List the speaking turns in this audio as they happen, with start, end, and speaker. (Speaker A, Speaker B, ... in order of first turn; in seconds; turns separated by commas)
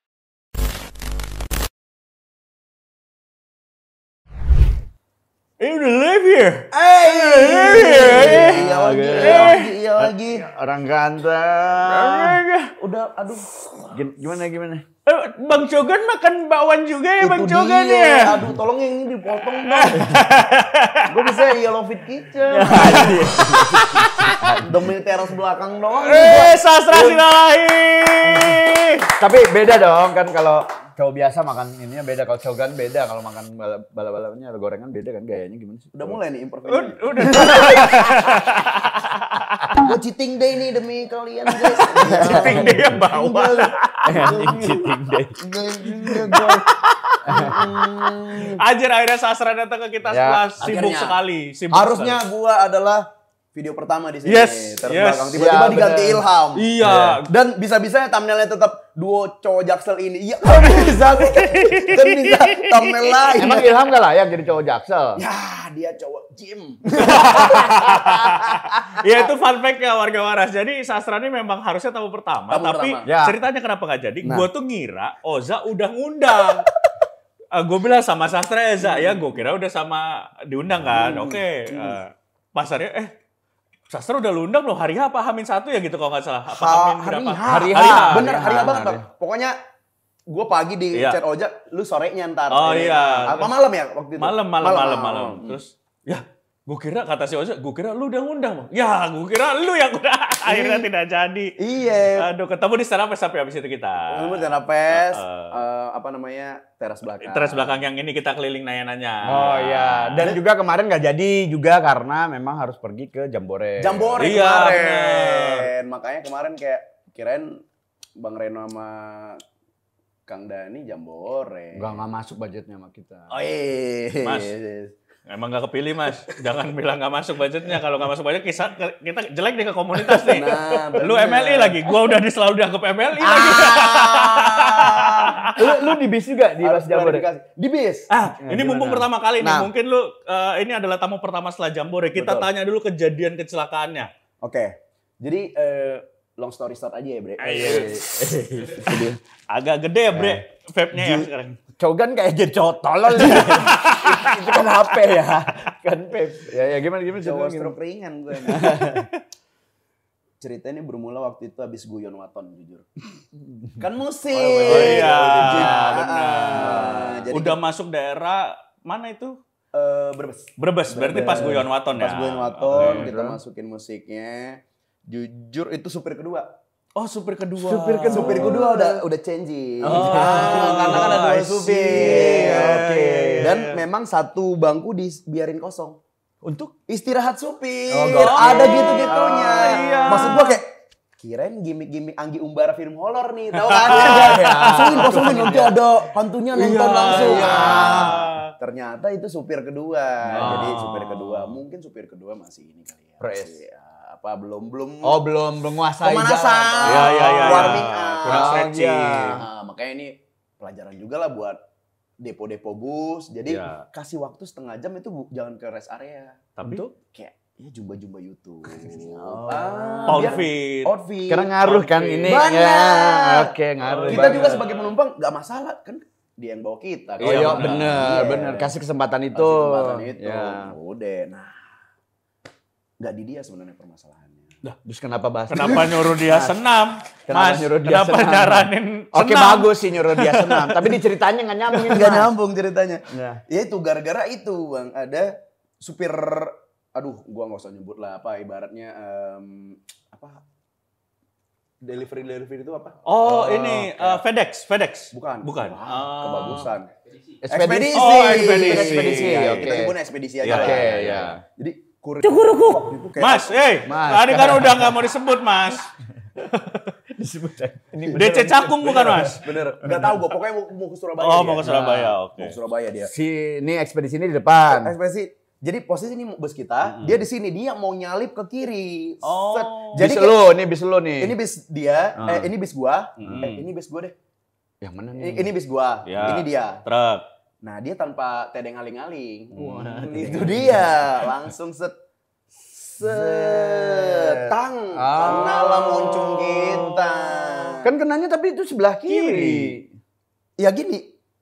Speaker A: 5.6-8.6, Speaker B: 6.8-10.5, Speaker C: 6.9-12.4, Speaker A: 9.2-9.7, Speaker A: 11.9-12.7, Speaker B: 12.8-14.0, Speaker C: 13.9-14.8, Speaker A: 15.1-18.4, Speaker B: 17.2-20.2, Speaker A: 19.5-21.1, Speaker B: 21.1-23.3, Speaker C: 22.5-24.9, Speaker A: 22.6-24.6, Speaker B: 24.6-26.6, Speaker A: 26.0-29.1, Speaker C: 26.9-27.2, Speaker C: 29.2-36.2, Speaker B: 35.9-38.2, Speaker A: 36.7-39.8, Speaker C: 37.3-37.9, Speaker B: 39.7-48.6, Speaker A: 41.9-44.4, Speaker C: 42.0-42.9, Speaker C: 44.0-46.4, Speaker A: 46.0-52.2, Speaker C: 47.3-47.9, Speaker C: 50.1-50.5, Speaker B: 50.6-51.2, Speaker B: 51.7-63.7, Speaker A: 54.3-55.4, Speaker C: 55.4-56.2, Speaker A: 56.5-57.3, Speaker A: 60.5-63.3, Speaker C: 63.3-65.2, Speaker B: 65.2-69.0, Speaker A: 67.0-76.7, Speaker B: 72.5-73.1, Speaker C: 73.0-73.4, Speaker A: 77.5-83.1, Speaker B: 78.8-79.3, Speaker B: 80.8-82.0, Speaker A: 83.9-88.8, Speaker B: 86.5-89.5, Speaker C: 87.5-89.1, Speaker B: 90.3-95.6, Speaker A: 90.9-91.2, Speaker A: 92.5-93.5, Speaker A: 94.2-105.6, Speaker B: 100.5-100.9, Speaker B: 101.6-102.3, Speaker B: 104.1-107.8, Speaker A: 107.2-110.3, Speaker C: 109.2-114.2, Speaker B: 113.8-117.6, Speaker A: 114.2-115.7, Speaker B: 118.2-119.4, Speaker B: 120.3-122.0, Speaker C: 121.8-123.4, Speaker B: 123.3-124.9, Speaker A: 124.2-124.5, Speaker A: 125.3-135.6, Speaker B: 130.1-131.9, Speaker B: 133.2-136.0, Speaker C: 135.6-137.3, Speaker B: 136.6-138.1, Speaker A: 138.1-144.1, Speaker C: 138.4-139.7, Speaker B: 142.2-142.5, Speaker B: 144.4-148.0, Speaker C: 147.4-149.2, Speaker A: 147.4-148.0, Speaker B: 148.8-149.2, Speaker A: 149.5-151.6, Speaker C: 150.1-150.4, Speaker C: 151.0-151.3, Speaker C: 151.8-157.8, Speaker A: 153.2-154.6, Speaker B: 157.1-159.1, Speaker C: 158.3-159.1, Speaker B: 160.4-162.9, Speaker C: 163.4-163.8, Speaker B: 163.8-167.6, Speaker C: 164.3-165.9, Speaker A: 164.6-169.4, Speaker C: 166.6-167.1, Speaker B: 169.7-176.5, Speaker A: 170.6-173.1, Speaker C: 171.2-171.6, Speaker C: 172.7-173.4, Speaker A: 177.0-178.6, Speaker C: 177.6-179.0, Speaker B: 178.1-186.0, Speaker C: 179.8-181.3, Speaker A: 179.8-183.8, Speaker C: 181.9-183.6, Speaker C: 186.4-186.7, Speaker B: 186.9-190.7, Speaker C: 187.9-190.4, Speaker A: 188.1-190.6, Speaker B: 191.2-205.3, Speaker A: 193.6-195.7, Speaker C: 193.9-195.8, Speaker A: 196.5-198.5, Speaker C: 197.1-198.2, Speaker C: 200.3-201.0, Speaker A: 200.4-201.6, Speaker C: 203.2-203.6, Speaker C: 205.0-209.4, Speaker B: 206.0-208.6, Speaker A: 206.8-209.4, Speaker B: 209.3-211.6, Speaker B: 212.2-221.5, Speaker A: 213.5-213.8, Speaker A: 216.6-216.9, Speaker C: 218.7-220.4, Speaker A: 220.1-220.9, Speaker C: 221.3-224.7, Speaker A: 221.6-222.4, Speaker B: 222.2-223.6, Speaker A: 223.8-224.9, Speaker B: 224.1-228.8, Speaker A: 227.2-228.0, Speaker C: 227.2-230.8, Speaker B: 229.3-231.7, Speaker B: 233.0-234.5, Speaker C: 234.8-236.6, Speaker A: 235.5-241.0, Speaker C: 237.3-242.3, Speaker B: 241.7-250.4, Speaker C: 243.1-243.4, Speaker B: 251.8-254.2, Speaker A: 253.1-256.7, Speaker B: 255.1-256.9, Speaker C: 257.4-260.0, Speaker B: 257.5-263.7, Speaker A: 257.9-259.8, Speaker A: 260.4-261.4, Speaker C: 260.5-261.4, Speaker C: 262.2-263.0, Speaker A: 263.2-266.9, Speaker C: 263.9-265.0, Speaker C: 267.1-270.2, Speaker A: 268.1-269.4, Speaker B: 268.8-271.9, Speaker A: 271.2-272.6, Speaker C: 271.6-272.2, Speaker B: 272.4-273.1, Speaker C: 273.0-274.9, Speaker B: 274.7-280.6, Speaker A: 276.9-277.2, Speaker A: 279.2-280.1, Speaker C: 280.0-281.4, Speaker B: 281.2-284.1, Speaker C: 282.2-282.5, Speaker C: 283.2-283.6, Speaker A: 283.2-283.6, Speaker C: 284.8-285.5, Speaker B: 285.2-286.8, Speaker A: 286.1-287.2, Speaker B: 287.6-291.9, Speaker C: 289.5-290.9, Speaker B: 292.7-297.9, Speaker C: 293.0-299.9, Speaker A: 299.1-299.7, Speaker B: 300.6-301.1